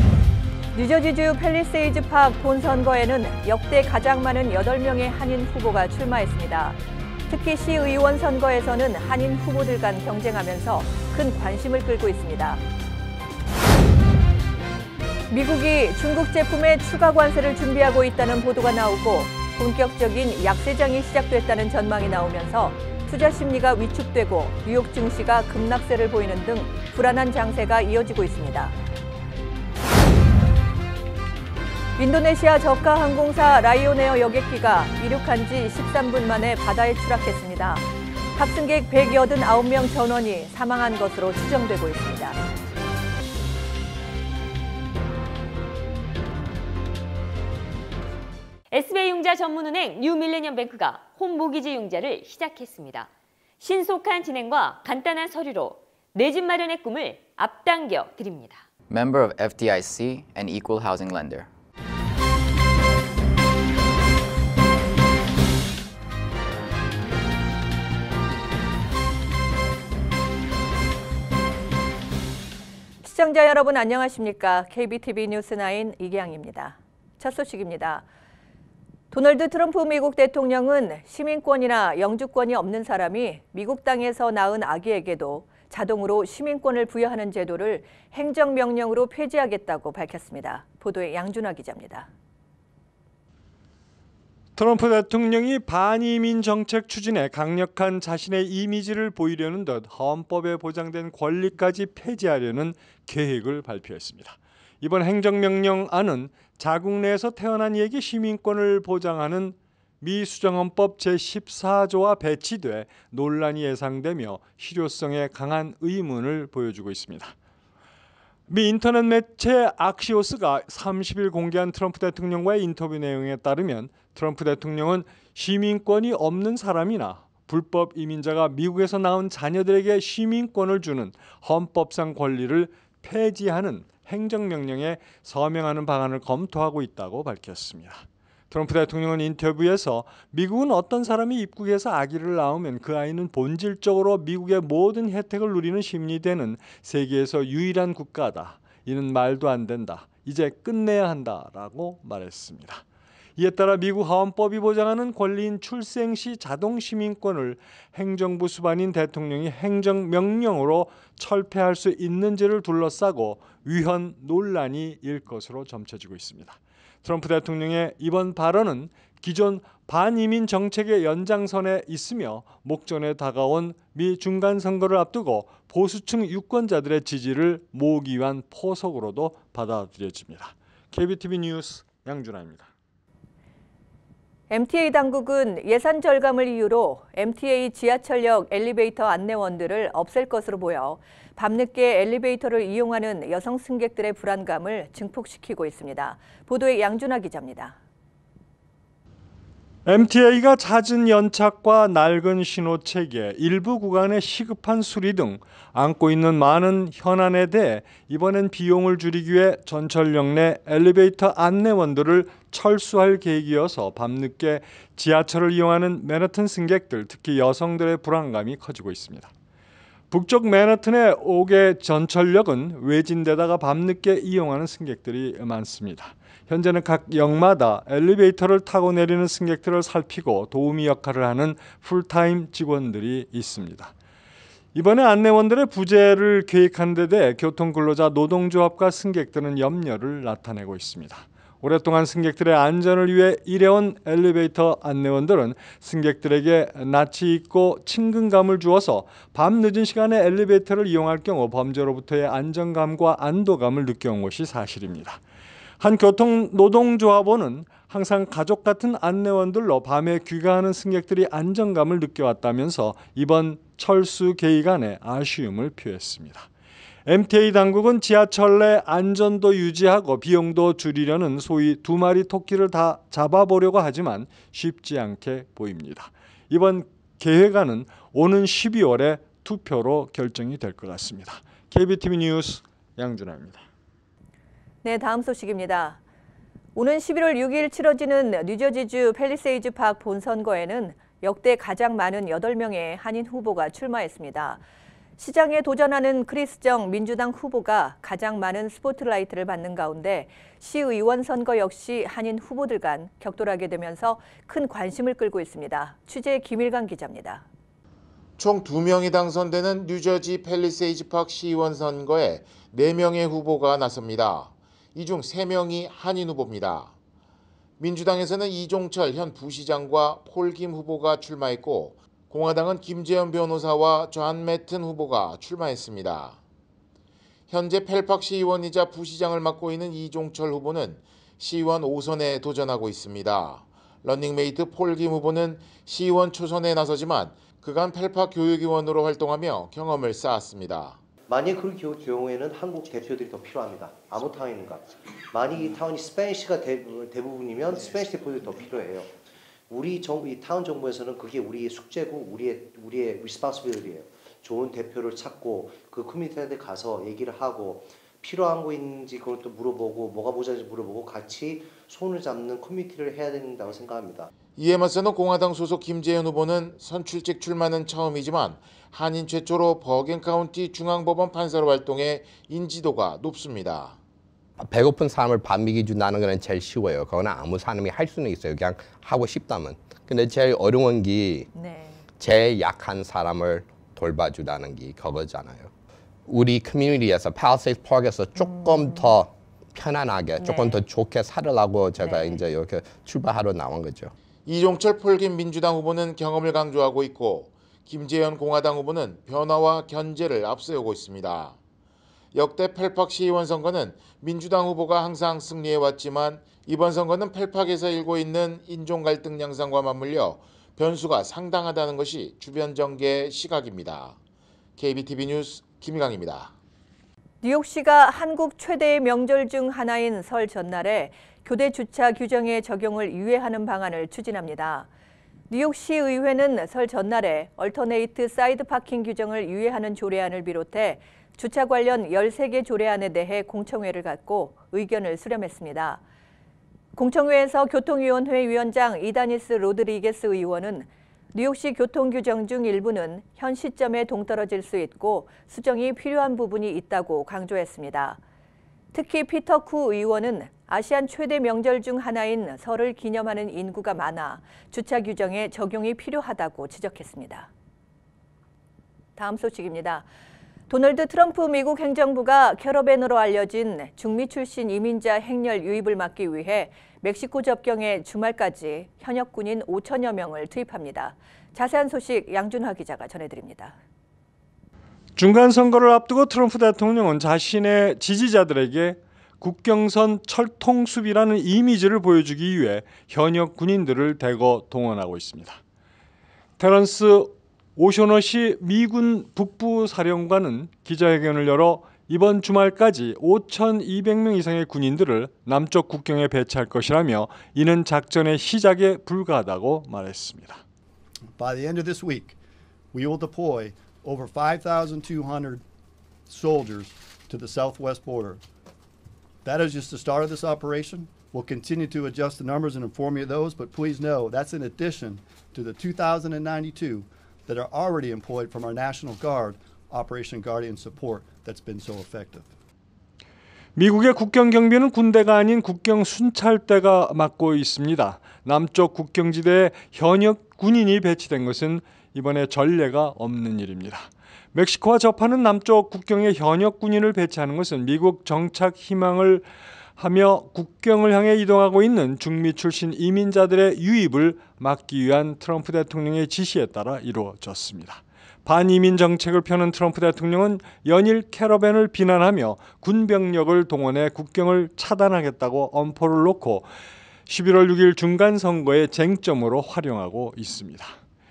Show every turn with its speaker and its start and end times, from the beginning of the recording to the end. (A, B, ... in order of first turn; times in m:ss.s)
0:00.7-0:12.6 A
0:15.3-0:28.7 A
0:32.0-0:42.4 A
0:48.7-0:53.1 B
0:53.6-0:58.6 B
0:58.9-1:01.5 C
1:13.0-1:18.0 A
1:19.1-1:32.1 A
1:34.6-1:57.3 D
1:58.5-2:32.8 D
2:33.4-3:02.7 D
3:04.5-3:17.8 A
3:19.8-3:39.3 D
3:40.1-3:53.9 D
3:54.7-4:15.2 D
4:15.8-4:26.5 D
4:27.0-4:43.6 D
4:44.8-4:46.0 A
4:46.7-4:54.6 A
4:55.2-5:07.4 A
5:08.4-5:16.9 E
5:17.8-5:26.4 E
5:27.5-5:41.0 E
5:41.3-5:49.2 F
5:49.7-6:04.3 F
6:04.6-6:14.0 E
6:14.6-6:21.5 G
6:21.5-6:22.0 A
6:22.2-6:25.7 G
6:26.2-6:34.1 G
6:28.4-6:29.1 A
6:30.4-6:30.8 A
6:32.0-6:32.4 A
6:34.4-6:41.6 E
6:42.3-6:54.2 E
6:54.8-6:56.5 E
6:57.4-7:04.9 A
7:05.5-7:16.0 A
7:16.9-7:28.2 A
7:28.9-7:37.5 A
7:39.2-7:40.0 A
7:40.7-7:53.8 A
7:55.2-8:05.6 D
8:06.6-8:20.6 D
8:21.4-8:22.4 H
8:22.9-8:25.6 H
8:26.3-8:28.4 H
8:29.4-8:42.5 H
8:43.8-9:16.7 D
9:17.3-9:21.0 D